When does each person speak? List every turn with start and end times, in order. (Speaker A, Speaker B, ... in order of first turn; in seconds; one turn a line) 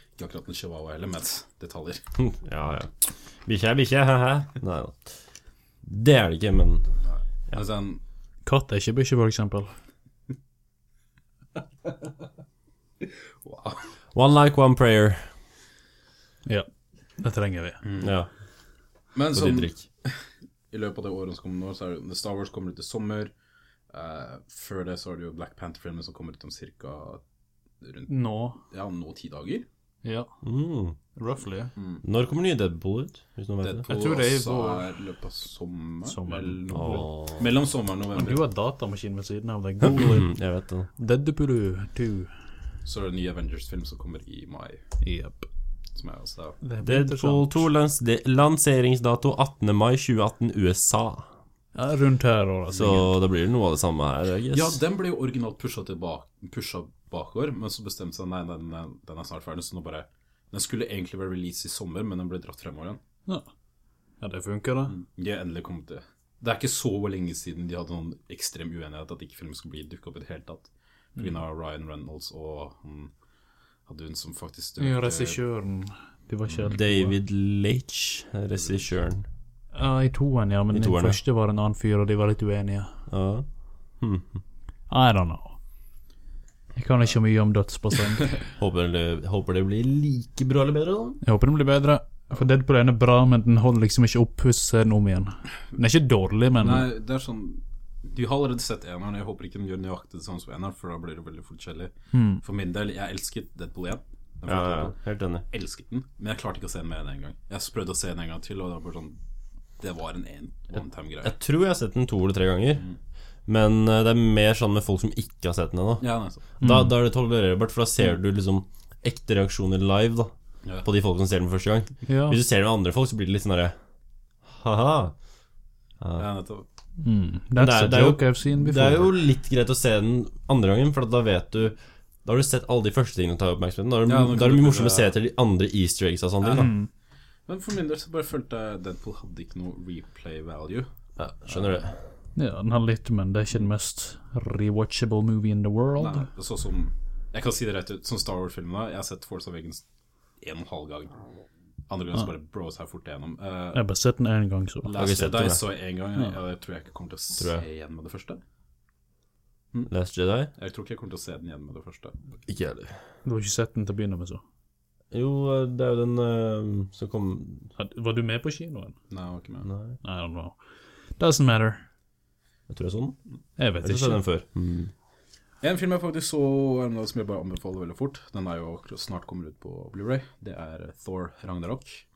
Speaker A: 0.2-2.0
Speaker B: 2.2-2.9
Speaker B: 3.5-5.1
Speaker B: 5.8-6.9
Speaker A: 7.0-8.0
Speaker C: 8.5-9.8
Speaker A: 13.4-13.8
Speaker B: 14.1-15.3
Speaker C: 17.2-17.8
Speaker A: 17.8-18.2
Speaker B: 18.0-18.3
Speaker A: 19.1-20.2
Speaker B: 19.3-19.8
Speaker A: 20.7-23.3
Speaker A: 23.9-27.2
Speaker A: 27.8-29.7
Speaker C: 28.1-28.6
Speaker C: 30.0-30.3
Speaker B: 30.4-31.0
Speaker C: 31.2-31.7
Speaker A: 31.8-32.0
Speaker B: 32.0-33.9
Speaker A: 33.6-38.4
Speaker C: 33.9-34.9
Speaker C: 36.1-37.1
Speaker B: 36.7-37.5
Speaker C: 38.1-40.3
Speaker B: 39.8-40.9
Speaker C: 41.0-42.3
Speaker A: 42.9-44.8
Speaker C: 45.0-45.5
Speaker A: 46.0-46.6
Speaker C: 46.6-47.6
Speaker B: 46.8-51.3
Speaker C: 51.8-53.1
Speaker B: 52.7-54.8
Speaker A: 54.5-63.0
Speaker C: 64.2-65.0
Speaker A: 64.9-73.1
Speaker A: 73.9-75.4
Speaker C: 74.8-77.2
Speaker B: 76.7-79.3
Speaker A: 78.6-78.9
Speaker C: 79.7-82.9
Speaker B: 80.7-81.2
Speaker B: 83.1-83.5
Speaker B: 84.0-84.3
Speaker C: 84.9-85.6
Speaker C: 86.8-88.4
Speaker B: 88.6-91.2
Speaker C: 91.2-96.9
Speaker A: 96.6-105.0
Speaker C: 102.1-102.4
Speaker B: 104.5-105.5
Speaker A: 105.5-109.2
Speaker A: 109.8-111.3
Speaker B: 111.2-112.8
Speaker B: 113.5-116.1
Speaker A: 116.0-116.4
Speaker B: 116.6-120.3
Speaker C: 116.6-117.0
Speaker B: 120.8-123.8
Speaker C: 122.1-122.4
Speaker B: 124.5-125.2
Speaker B: 126.0-126.3
Speaker A: 126.2-126.7
Speaker C: 127.0-129.2
Speaker B: 127.6-136.7
Speaker A: 134.1-135.2
Speaker A: 136.4-136.8
Speaker C: 136.5-136.9
Speaker A: 137.5-140.9
Speaker B: 141.2-142.0
Speaker A: 141.5-141.8
Speaker C: 142.4-146.3
Speaker A: 146.0-149.8
Speaker A: 150.4-151.2
Speaker A: 151.9-153.8
Speaker C: 153.7-154.9
Speaker A: 154.8-158.4
Speaker B: 154.9-155.6
Speaker B: 157.4-157.6
Speaker B: 159.9-160.5
Speaker A: 160.6-162.2
Speaker B: 162.5-163.0
Speaker C: 163.2-164.4
Speaker B: 165.1-167.7
Speaker C: 167.8-169.0
Speaker A: 169.1-169.7
Speaker B: 169.6-170.0
Speaker C: 170.0-170.6
Speaker C: 171.2-171.8
Speaker B: 172.7-173.2
Speaker C: 173.6-174.2
Speaker B: 173.8-174.9
Speaker A: 175.6-182.0